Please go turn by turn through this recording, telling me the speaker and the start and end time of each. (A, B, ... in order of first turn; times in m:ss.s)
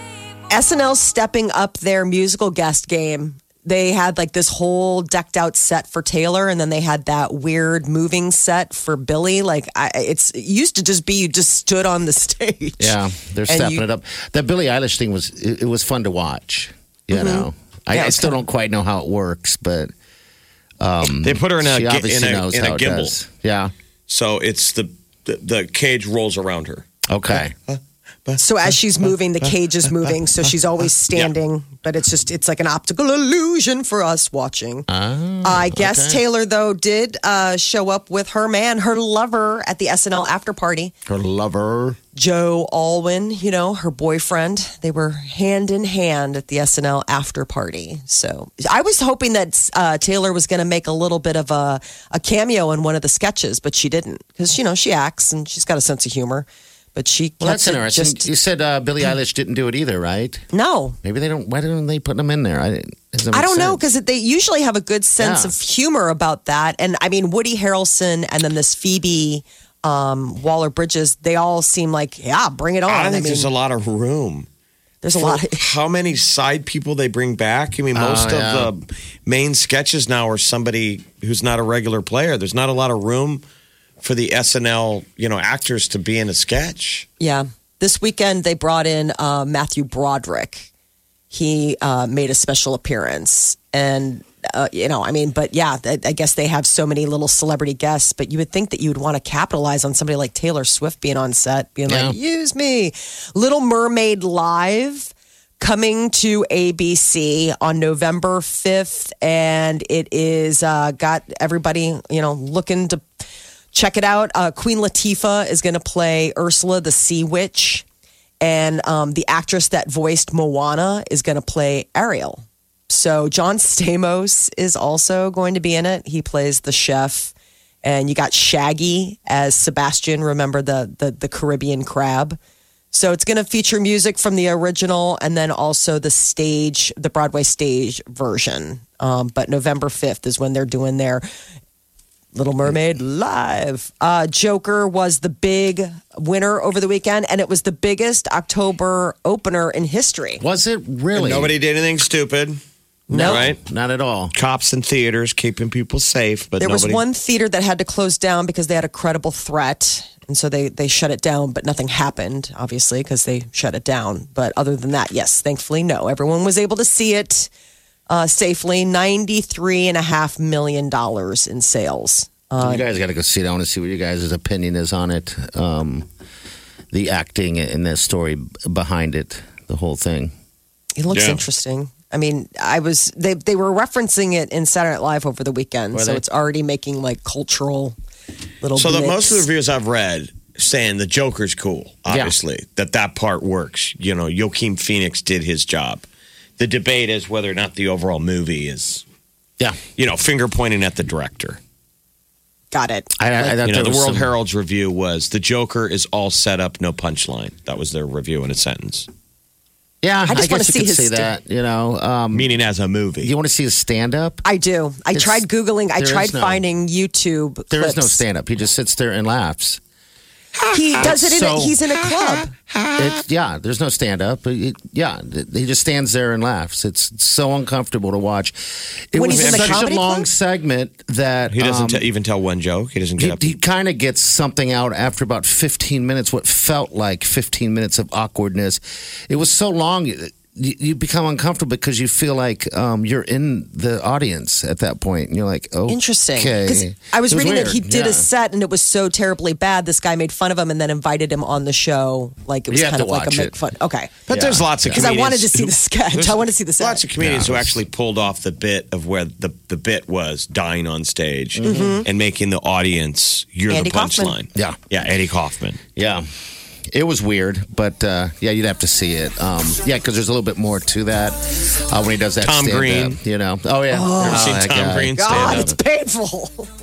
0:00.5-0:13.8 A
0:12.8-0:19.9 B
0:17.1-0:18.4 A
0:20.8-0:23.7 B
0:21.0-0:23.2 C
0:24.1-0:29.5 C
0:27.1-0:27.6 B
0:28.4-0:34.9 A
0:34.9-0:36.2 B
0:35.4-0:40.9 A
0:41.1-0:42.0 B
0:42.1-0:58.3 A
0:57.4-1:00.4 B
1:00.5-1:01.0 A
1:01.0-1:03.8 B
1:03.3-1:13.5 A
1:05.2-1:05.6 B
1:12.9-1:14.5 C
1:15.0-1:15.6 A
1:15.2-1:23.4 C
1:18.0-1:18.7 B
1:24.0-1:27.1 C
1:27.2-1:30.7 A
1:31.3-1:53.0 A
1:41.9-1:42.2 B
1:53.7-1:57.8 A
1:58.4-2:12.4 A
2:12.9-2:21.2 A
2:22.3-2:30.4 A
2:30.4-2:31.6 B
2:31.1-2:32.6 C
2:33.1-2:33.5 A
2:33.1-2:33.6 C
2:33.1-2:34.3 B
2:34.3-2:37.0 C
2:36.6-2:47.5 A
2:48.1-2:52.9 A
2:52.6-2:56.1 B
2:56.9-3:00.3 B
3:01.0-3:08.0 A
3:01.1-3:01.4 C
3:05.9-3:06.2 B
3:08.6-3:09.5 A
3:08.8-3:16.1 C
3:16.6-3:19.0 C
3:20.0-3:21.6 C
3:22.7-3:23.6 A
3:23.2-3:24.3 B
3:23.6-3:29.1 C
3:30.0-3:32.5 B
3:30.3-3:31.3 A
3:32.3-3:33.3 C
3:33.2-3:34.4 B
3:34.4-3:38.2 A
3:35.1-3:35.4 B
3:36.0-3:36.6 B
3:37.7-3:39.8 B
3:40.6-3:41.1 C
3:40.7-3:42.5 A
3:41.0-3:41.9 B
3:42.7-3:43.1 C
3:43.0-3:48.6 B
3:49.1-3:52.1 B
3:49.1-3:50.3 A
3:49.3-3:49.9 C
3:51.5-3:53.5 C
3:53.2-4:08.3 B
4:05.9-4:14.2 A
4:12.7-4:13.6 B
4:14.3-4:15.1 B
4:14.3-4:25.8 C
4:14.9-4:17.0 A
4:17.2-4:17.8 B
4:21.6-4:22.0 B
4:21.6-4:22.1 A
4:23.7-4:24.4 A
4:26.0-4:26.3 B
4:26.9-4:35.8 B
4:32.4-4:33.2 C
4:33.9-4:34.6 A
4:34.2-4:35.8 C
4:35.2-4:36.7 A